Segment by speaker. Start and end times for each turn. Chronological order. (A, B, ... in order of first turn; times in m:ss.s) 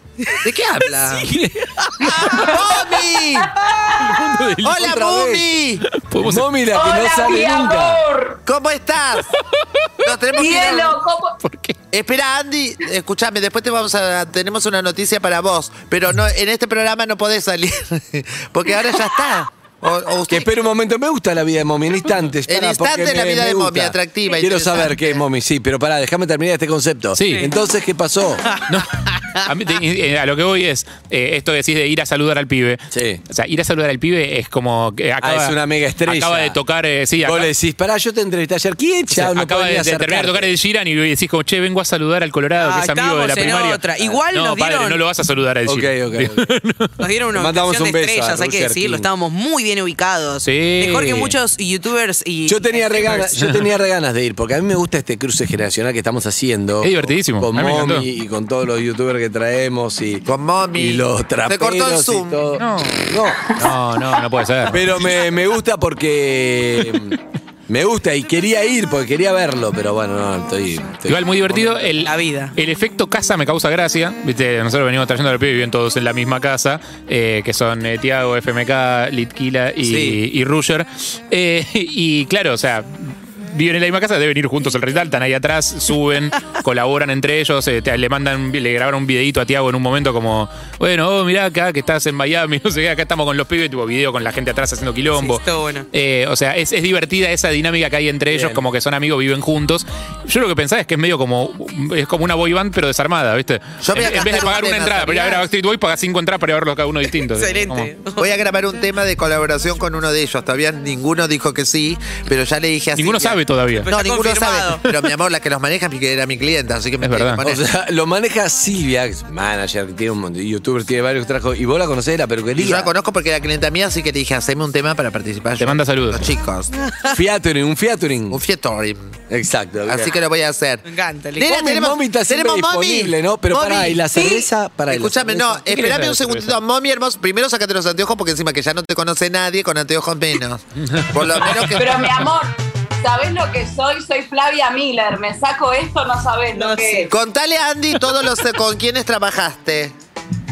0:00.4-0:01.3 A
0:00.9-0:02.6 B
0:02.2-0:02.9 C
0:02.3-0:03.6 A
0:03.5-0:04.0 C
0:03.9-0:05.0 D
0:04.6-0:05.8 A
0:04.7-0:05.5 E
0:05.9-0:06.5 D
0:06.2-0:08.0 E
0:06.7-0:08.4 C
0:08.5-0:09.3 A
0:09.3-0:10.4 D
0:10.0-0:11.0 A
0:10.4-0:11.4 C
0:11.4-0:11.8 D
0:11.9-0:20.5 A
0:20.3-0:28.5 E
0:22.5-0:25.2 A
0:27.2-0:27.5 D
0:27.2-0:27.5 B
0:28.7-0:37.5 D
0:32.9-0:33.2 E
0:35.2-0:36.6 E
0:37.2-0:40.5 E
0:39.1-0:46.9 D
0:42.6-0:45.0 B
0:45.7-0:46.5 E
0:47.0-0:53.5 B
0:47.3-0:49.1 E
0:50.4-0:51.4 D
0:52.5-1:03.6 E
0:56.8-0:58.1 D
1:00.2-1:02.4 A
1:02.6-1:05.1 D
1:04.7-1:11.9 E
1:11.1-1:47.9 D
1:11.9-1:12.6 B
1:19.8-1:20.2 B
1:35.1-1:35.9 B
1:38.3-1:38.6 E
1:43.8-1:45.4 A
1:47.2-1:48.4 B
1:48.2-1:57.6 A
1:53.0-1:53.9 D
1:53.7-1:55.1 B
1:57.0-1:57.4 D
1:57.4-2:02.9 E
2:02.6-2:06.7 A
2:05.6-2:06.2 D
2:07.1-2:08.4 E
2:08.3-2:09.2 A
2:09.3-2:10.1 E
2:09.9-2:10.8 A
2:10.8-2:11.6 B
2:11.4-2:14.3 A
2:11.4-2:15.6 E
2:14.9-2:22.2 A
2:15.7-2:16.6 D
2:20.8-2:21.8 D
2:21.8-2:27.1 C
2:26.5-2:27.1 B
2:27.1-2:29.9 A